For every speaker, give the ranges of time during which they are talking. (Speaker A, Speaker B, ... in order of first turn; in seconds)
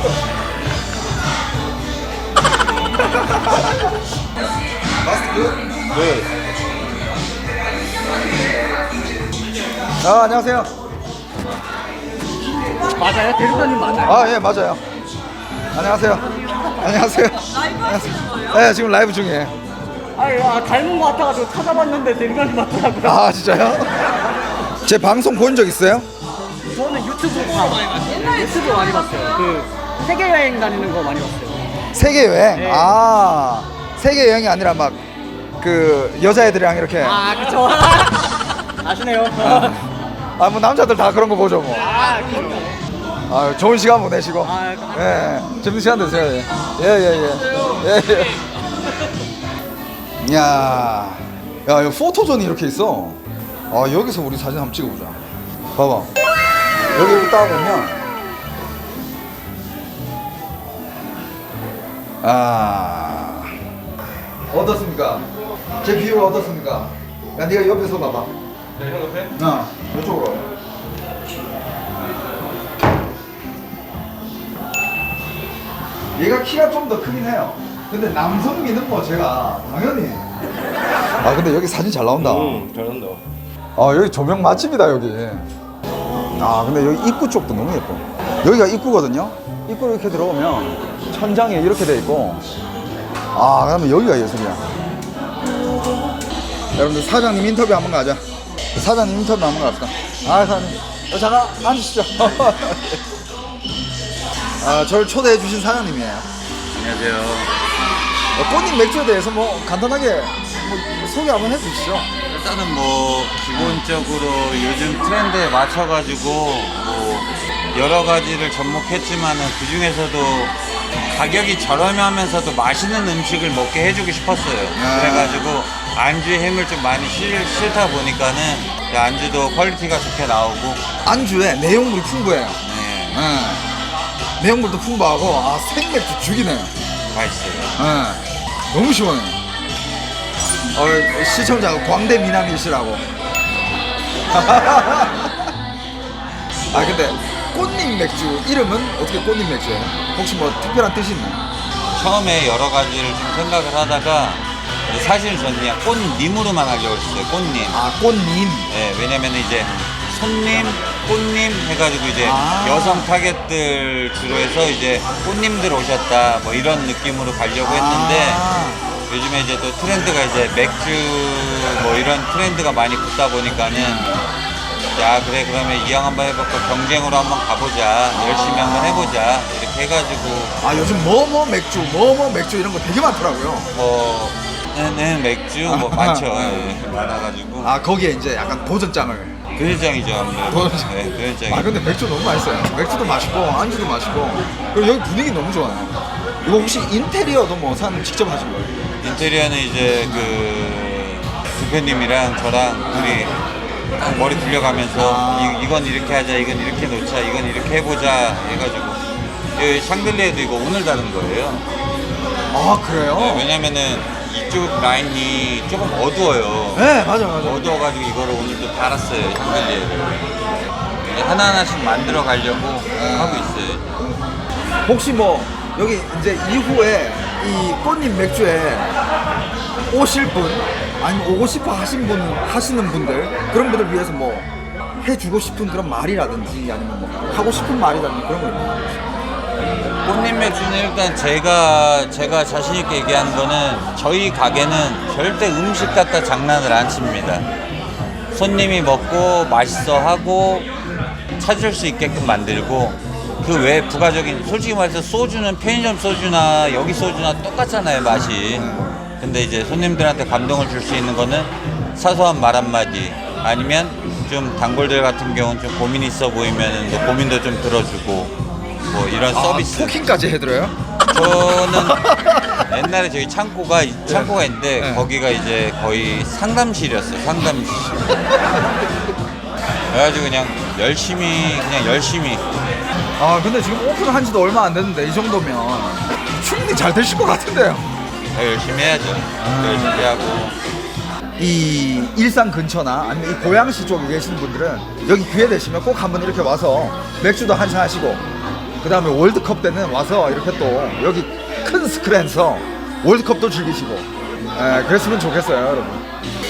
Speaker A: 3.3-3.8, 5.0-5.6, 10.0-10.7, 14.0-14.8, 15.7-19.5, 23.0-24.1, 24.8-26.1, 31.9-35.0, 35.6-37.3, 39.4-39.9, 40.4-42.0, 43.3-48.5, 50.2-55.2, 55.8-56.1, 56.9-58.0, 62.2-63.5, 64.5-65.3, 65.8-68.3, 69.3-70.5, 76.2-80.3, 81.2-82.7, 83.8-85.5, 86.4-92.4, 93.3-94.7, 96.8-98.2, 98.8-103.0, 104.6-106.3, 108.4-112.1, 113.5-113.8, 124.8-125.6, 131.1-132.6, 133.1-133.7, 134.4-136.7, 137.8-139.4, 140.7-143.0, 144.3-145.5, 146.7-151.4, 157.7-158.7, 159.5-159.8, 162.2-163.1, 167.6-168.8, 173.7-174.3, 178.1-179.2, 180.6-183.7, 185.6-186.8, 187.6-189.4, 190.4-198.9, 202.9-203.3, 204.7-205.7, 212.5-213.5, 216.7-217.8, 222.9-223.6, 224.8-228.9, 229.9-234.5, 235.0-239.0, 258.5-259.0, 269.3-272.8, 274.1-275.1, 283.2-287.9, 289.4-290.1, 291.4-298.2, 298.8-306.0
Speaker B: 5.9-6.3, 68.8-69.3, 82.2-83.2
Speaker C: 13.0-14.3, 20.1-23.2, 26.7-31.7, 32.5-32.9, 37.0-38.3, 38.8-39.8, 41.9-42.8, 44.4-45.1
Speaker D: 106.7-107.5, 112.3-130.8, 132.6-133.2, 137.1-137.8, 151.9-157.8, 158.7-168.5, 169.1-174.2, 174.9-181.1, 183.7-187.7, 189.6-191.8, 199.0-203.4, 204.0-209.0, 209.6-211.7, 213.1-220.4, 221.0-223.9, 240.0-247.5, 248.3-250.7, 251.4-268.3, 268.9-270.0, 271.1-272.1, 272.7-278.2, 279.9-282.4, 288.3-290.6